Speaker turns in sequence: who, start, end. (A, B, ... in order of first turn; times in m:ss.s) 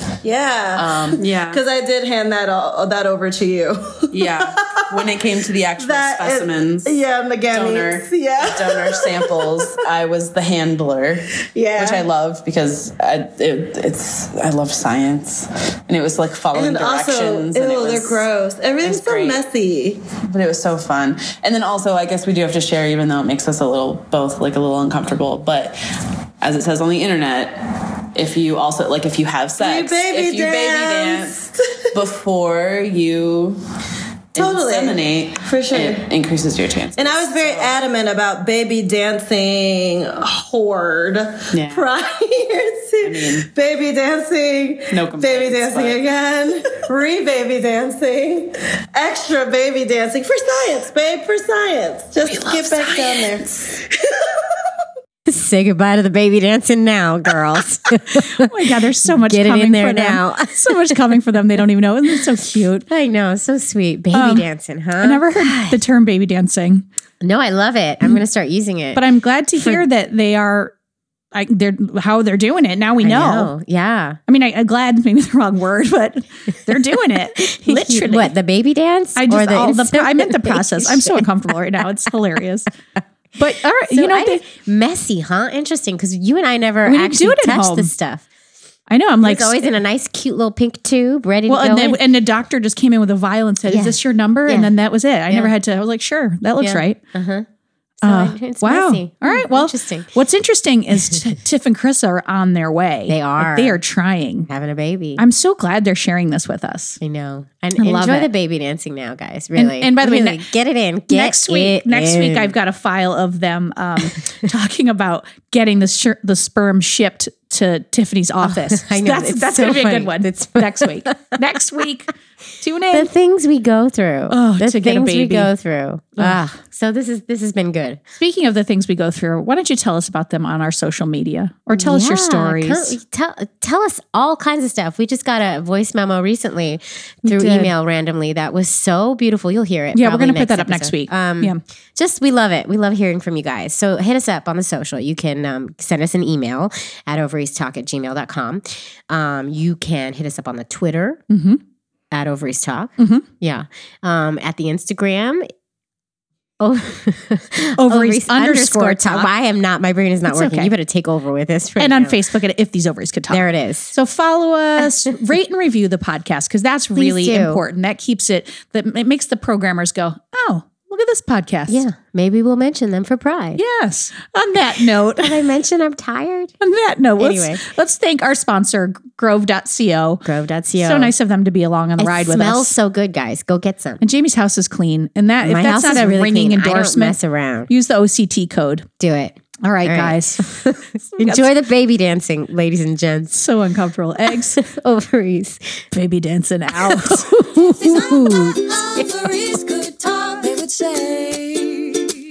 0:00.2-0:05.1 A
0:00.7-0:01.6 B
0:04.1-0:07.0 B
0:05.8-0:09.8 A
0:07.5-0:18.3 B
0:11.5-0:12.1 A
0:16.5-0:20.0 A
0:18.8-0:19.4 B
0:20.3-0:25.8 B
0:26.4-0:33.6 B
0:29.6-0:31.5 A
0:34.3-0:37.8 B
0:34.3-0:36.1 A
0:37.0-0:53.7 A
0:41.5-0:41.9 B
0:43.0-0:43.5 B
0:44.9-0:46.1 B
0:52.2-0:53.7 B
0:55.3-0:58.5 C
0:58.1-1:02.8 D
0:59.0-1:01.0 C
1:02.9-1:05.8 C
1:04.1-1:04.5 D
1:05.0-1:06.8 D
1:07.2-1:09.0 C
1:08.9-1:10.7 D
1:11.3-1:13.5 D
1:13.0-1:14.2 C
1:14.3-1:18.3 D
1:17.4-1:21.3 C
1:19.2-1:22.7 D
1:23.4-1:24.4 D
1:23.9-1:28.2 C
1:26.8-1:27.9 D
1:28.9-1:29.7 D
1:29.2-1:32.0 C
1:31.5-1:37.0 D
1:33.7-1:34.7 C
1:35.3-1:35.5 C
1:36.6-1:37.4 C
1:38.0-1:40.1 C
1:38.0-1:44.5 D
1:43.1-1:43.8 C
1:44.5-1:45.2 C
1:45.2-1:47.0 D
1:47.0-1:52.5 C
1:47.8-1:48.3 D
1:49.5-1:50.4 D
1:51.1-2:03.1 D
1:58.4-2:01.3 C
2:02.9-2:08.0 C
2:04.3-2:05.5 D
2:06.2-2:06.4 D
2:08.2-2:13.0 D
2:11.7-2:31.2 C
2:17.2-2:17.7 D
2:19.9-2:21.6 D
2:31.3-2:31.6 D
2:32.1-2:35.5 C
2:33.0-2:33.2 D
2:36.6-2:42.2 C
2:37.8-2:39.3 D
2:40.3-2:40.7 D
2:41.8-2:51.8 D
2:43.3-2:43.9 C
2:47.0-2:47.6 C
2:51.7-2:53.6 C
2:53.6-2:55.4 D
2:55.2-2:56.5 C
2:56.6-3:00.2 D
2:57.2-2:57.6 C
3:00.2-3:01.1 C
3:00.8-3:02.7 D
3:02.0-3:04.0 C
3:04.0-3:07.2 D
3:05.4-3:07.7 C
3:07.7-3:08.8 D
3:09.0-3:13.4 C
3:09.6-3:10.6 D
3:11.2-3:11.5 D
3:13.3-3:14.6 D
3:14.6-3:15.8 C
3:15.9-3:18.4 D
3:16.8-3:17.5 C
3:17.7-3:22.1 E